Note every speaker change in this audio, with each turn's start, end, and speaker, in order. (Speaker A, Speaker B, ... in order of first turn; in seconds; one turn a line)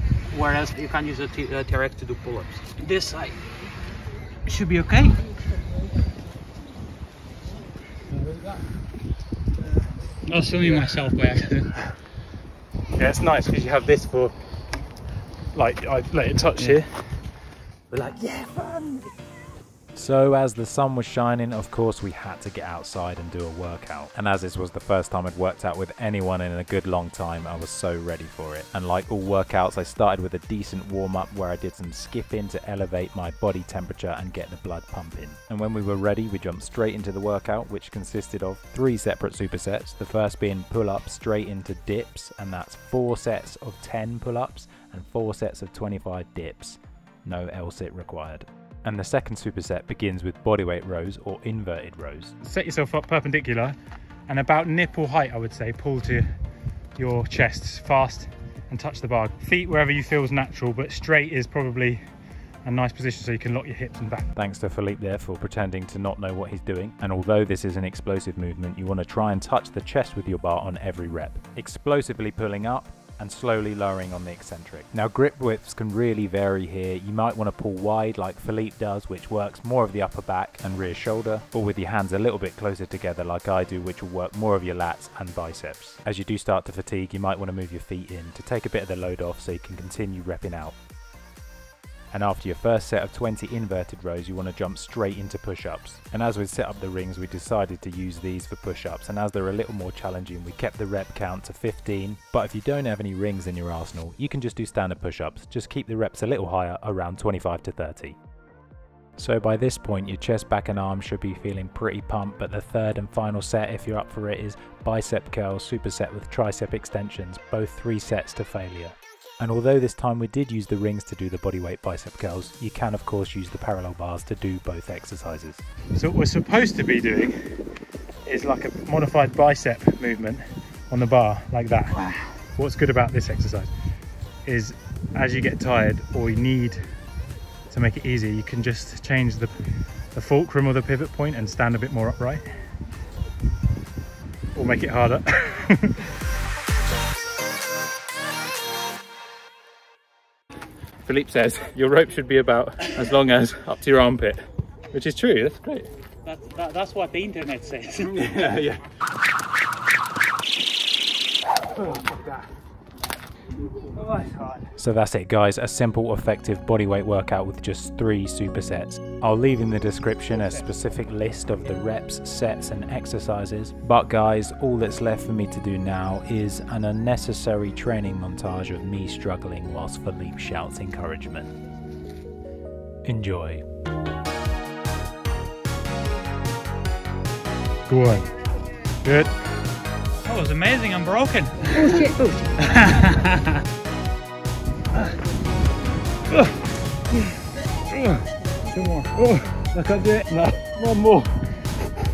Speaker A: 0.3-3.4
Speaker A: 4.5-5.2
Speaker A: 10.2-11.7
Speaker B: 10.6-11.0
Speaker B: 12.9-14.3
Speaker B: 15.5-17.2
Speaker B: 17.9-19.1
Speaker B: 19.9-53.8
Speaker B: 54.3-56.3
Speaker B: 57.0-62.0
Speaker B: 62.6-90.8
Speaker B: 92.1-108.2
Speaker B: 109.2-127.6
Speaker B: 128.2-133.7
Speaker B: 134.4-136.8
Speaker B: 137.7-142.4
Speaker B: 144.6-145.9
Speaker B: 151.1-154.4
Speaker B: 154.9-155.9
Speaker A: 156.2-158.3
Speaker B: 158.1-158.8
Speaker A: 164.1-164.6
Speaker B: 164.8-181.5
Speaker B: 183.1-183.6
Speaker B: 187.9-188.3
Speaker B: 189.1-189.3
Speaker A: 190.2-193.6
Speaker B: 198.0-198.2
Speaker A: 198.7-199.1
Speaker B: 199.2-201.4